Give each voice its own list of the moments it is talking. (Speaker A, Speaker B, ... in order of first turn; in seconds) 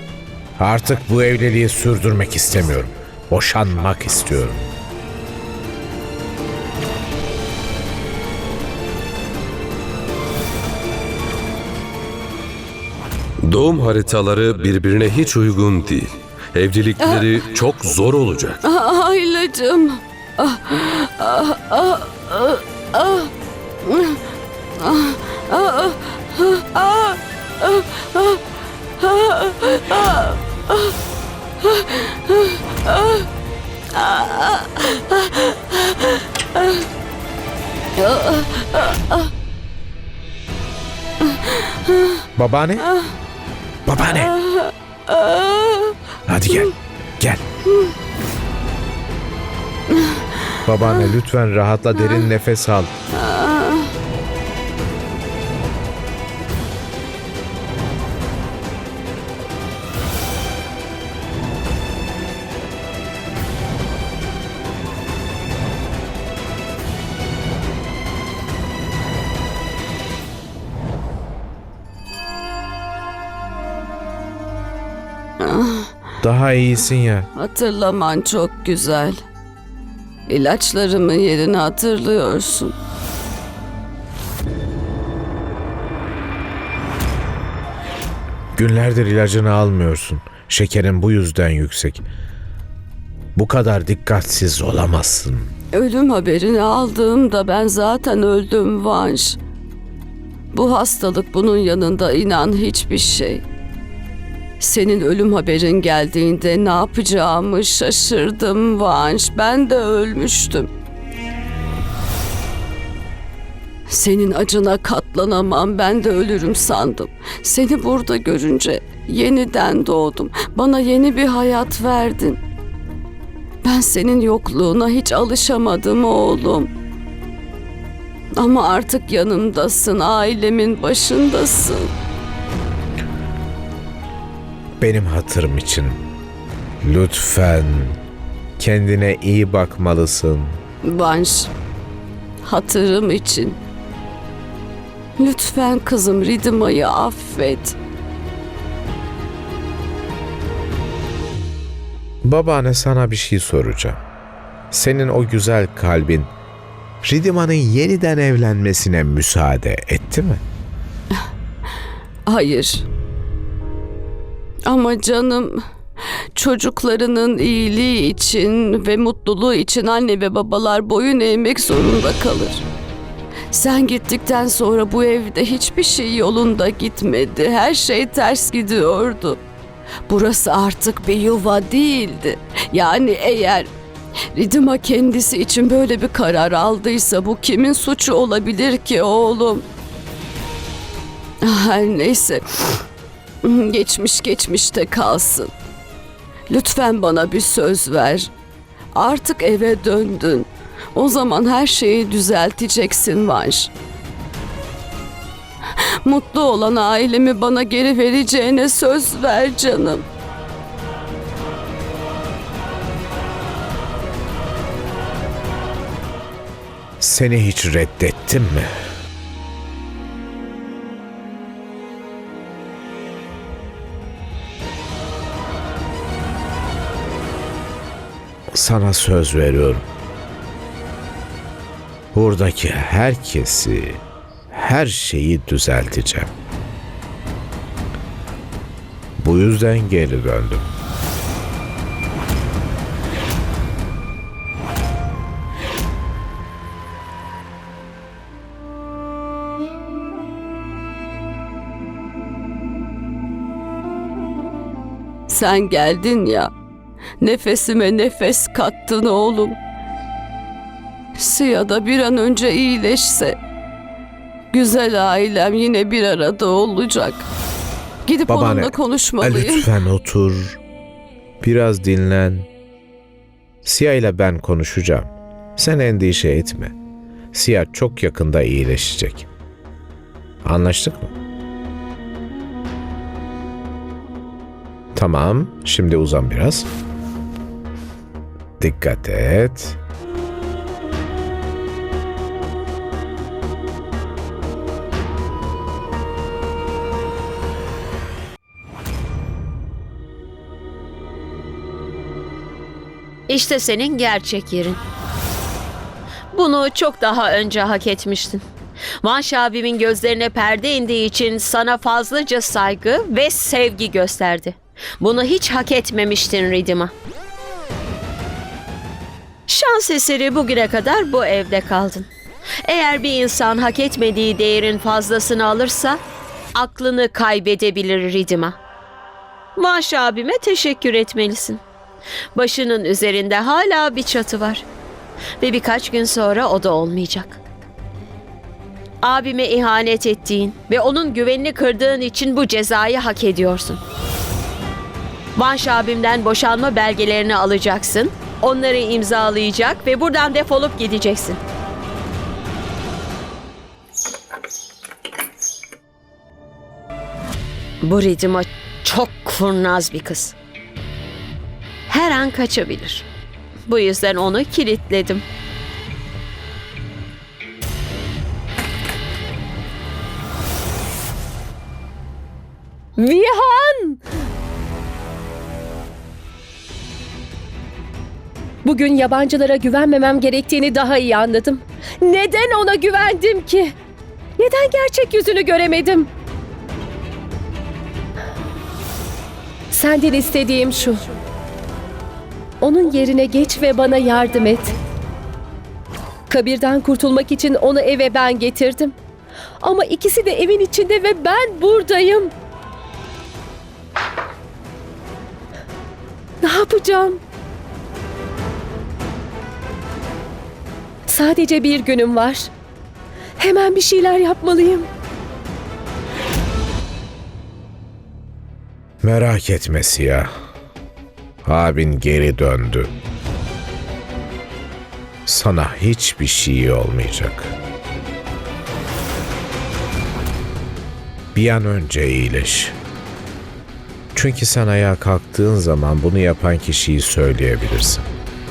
Speaker A: 0.6-4.7, 42.4-42.9, 43.9-44.3, 46.3-47.4, 50.6-52.9, 76.2-77.3, 88.5-92.0, 93.3-95.5, 134.8-136.0, 136.8-138.0, 138.6-140.6, 152.2-154.0, 154.7-156.3, 157.0-160.4, 217.0-218.7, 228.5-229.8, 232.1-236.3, 239.2-240.7, 268.3-270.6, 271.4-272.5, 273.6-276.7, 277.3-279.3, 280.4-281.1, 284.9-286.7, 288.6-289.8, 419.0-420.3, 421.4-422.9, 425.2-427.5, 431.3-432.8, 434.1-438.1
Speaker B: 13.4-18.6
Speaker C: 17.0-17.4, 18.6-24.2, 24.8-28.4, 29.0-30.9, 31.6-33.3, 33.9-36.9, 38.0-39.3, 41.4-42.2, 42.8-43.1, 44.0-46.0, 53.1-53.9, 75.4-75.9, 77.3-79.2, 80.3-82.7, 95.7-99.4, 100.5-103.4, 104.6-110.7, 113.9-122.4, 123.6-126.7, 128.3-131.9, 140.8-141.5, 142.4-143.6, 145.2-147.8, 162.3-162.8, 164.7-165.6, 166.3-172.6, 173.5-179.4, 180.1-183.7, 184.3-189.7, 191.4-192.8, 193.4-195.5, 196.5-198.3, 198.9-203.7, 206.0-210.0, 255.3-256.5, 257.2-259.6, 261.1-263.4, 264.5-267.3, 268.1-269.7
Speaker D: 303.3-304.8, 306.3-308.4, 309.0-316.9, 319.5-322.1, 322.6-326.0, 326.6-328.6, 329.6-331.6, 332.4-334.6, 335.4-337.4, 339.0-343.8, 345.4-351.4, 357.8-360.3, 361.9-363.1, 363.7-365.2
Speaker E: 373.0-374.0, 378.6-383.7, 384.4-386.1, 389.7-391.0, 392.6-394.7, 396.3-398.9, 399.6-402.3, 406.4-407.2, 411.1-412.5, 413.4-414.9